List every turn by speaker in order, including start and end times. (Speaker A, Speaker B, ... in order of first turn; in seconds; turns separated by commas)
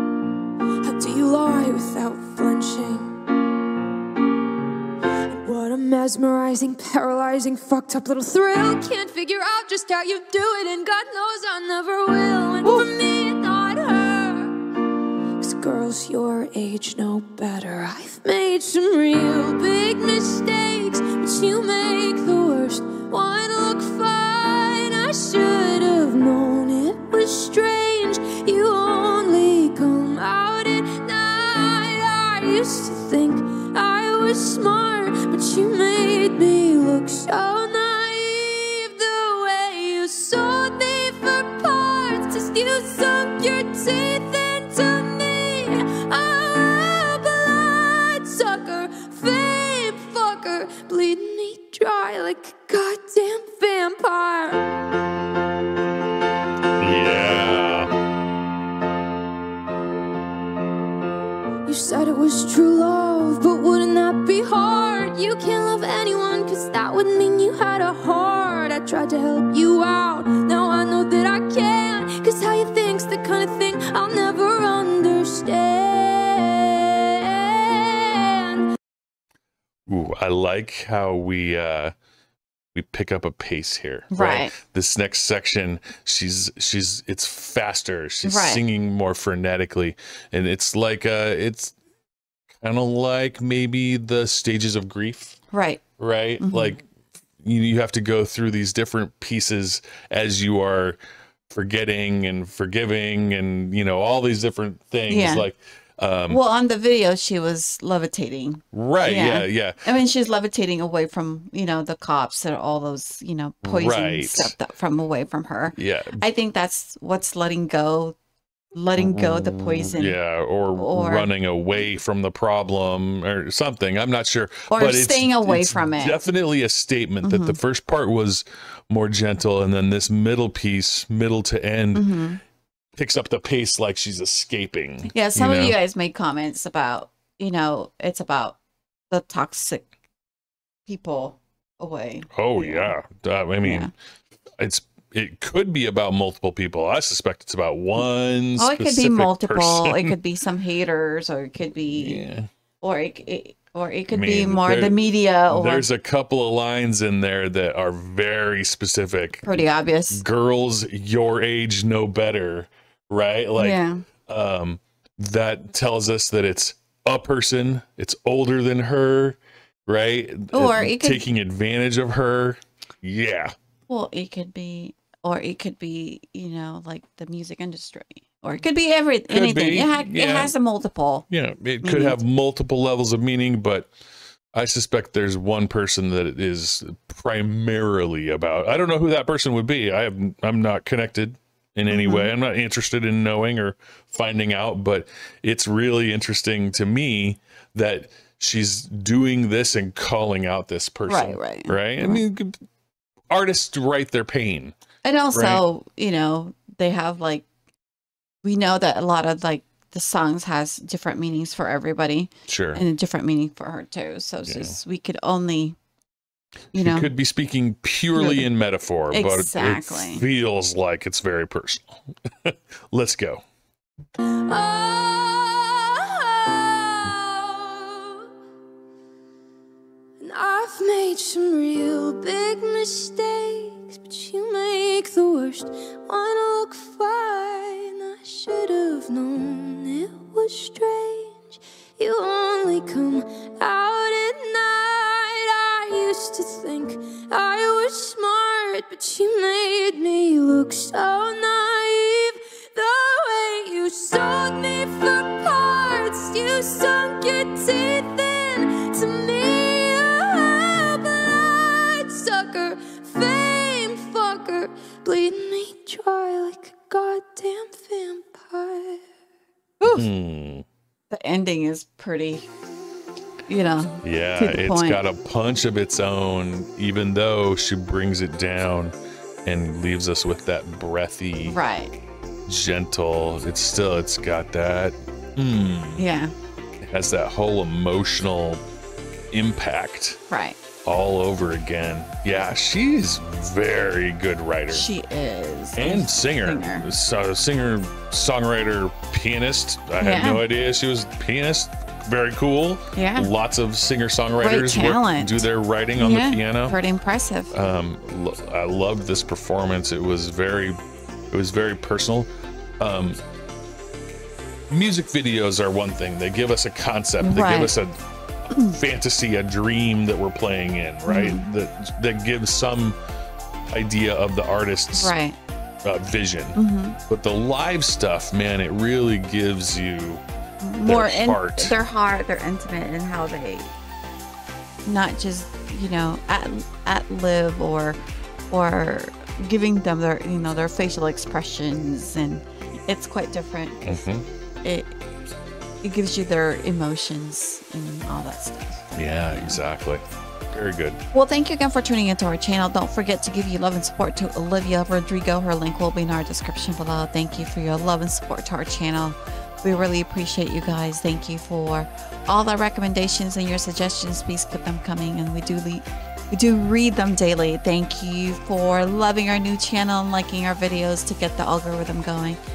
Speaker A: 0.8-3.1, Speaker A: 5.3-14.6, Speaker A: 15.4-54.7, Speaker B: 56.8-57.9, Speaker A: 61.6-78.7, Speaker B: 79.9-81.9, Speaker B: 82.7-91.7, Speaker C: 84.1-84.5, Speaker C: 88.2-88.6, Speaker B: 92.6-95.4, Speaker C: 95.5-95.8, Speaker B: 96.0-96.8, Speaker C: 96.4-96.8, Speaker B: 97.4-101.0, Speaker B: 101.5-106.4, Speaker C: 105.1-105.5, Speaker C: 106.3-118.2, Speaker B: 108.7-109.8, Speaker B: 113.6-114.6, Speaker B: 115.8-116.2, Speaker C: 118.7-120.2, Speaker B: 119.0-132.1, Speaker C: 120.8-121.3, Speaker C: 124.7-126.2, Speaker C: 127.2-127.6, Speaker C: 131.9-132.4, Speaker B: 133.0-135.8, Speaker C: 135.1-138.6, Speaker C: 139.1-139.8, Speaker C: 140.8-142.9, Speaker B: 142.3-143.9, Speaker C: 143.6-143.9, Speaker B: 144.6-150.2, Speaker C: 148.6-152.2, Speaker B: 151.9-152.5, Speaker C: 152.8-155.9, Speaker B: 154.1-159.6, Speaker C: 159.4-160.2, Speaker B: 160.1-173.5, Speaker C: 163.6-164.0, Speaker C: 170.5-171.2, Speaker C: 173.9-181.2, Speaker B: 179.3-180.5, Speaker B: 181.3-183.9, Speaker C: 181.8-182.2, Speaker B: 184.5-202.6, Speaker C: 191.9-192.3, Speaker C: 201.1-202.2, Speaker B: 203.3-204.7, Speaker C: 205.0-207.4, Speaker B: 205.3-205.6, Speaker C: 208.4-215.8, Speaker B: 212.5-212.8, Speaker B: 214.4-214.8, Speaker C: 216.7-217.1, Speaker B: 216.7-223.4, Speaker C: 218.1-218.5, Speaker C: 219.1-220.2, Speaker A: 224.5-228.2, Speaker A: 230.2-269.0, Speaker C: 269.8-270.1, Speaker B: 269.9-270.6, Speaker C: 271.1-272.4, Speaker C: 273.5-275.0, Speaker B: 274.0-281.6, Speaker C: 281.4-282.0, Speaker B: 282.5-286.0, Speaker C: 286.0-286.3, Speaker B: 286.9-288.6, Speaker B: 289.3-290.2, Speaker C: 290.3-290.6, Speaker B: 290.8-294.9, Speaker C: 294.7-296.9, Speaker B: 295.8-306.8, Speaker C: 300.0-300.4, Speaker C: 302.9-303.3, Speaker C: 304.4-307.5, Speaker B: 307.5-310.8, Speaker B: 311.3-312.3, Speaker B: 312.8-313.2, Speaker B: 314.7-318.0, Speaker C: 317.2-317.7, Speaker B: 318.5-323.0, Speaker C: 318.5-318.8, Speaker C: 321.1-321.5, Speaker B: 323.7-325.1, Speaker C: 324.9-325.4, Speaker B: 325.8-326.6, Speaker C: 326.6-327.0, Speaker B: 327.1-330.2, Speaker C: 330.6-333.7, Speaker B: 330.8-331.8, Speaker C: 334.8-338.0, Speaker C: 338.5-344.0, Speaker B: 343.8-344.2, Speaker C: 344.6-344.9, Speaker C: 345.8-349.6, Speaker B: 348.9-351.0, Speaker C: 351.1-372.4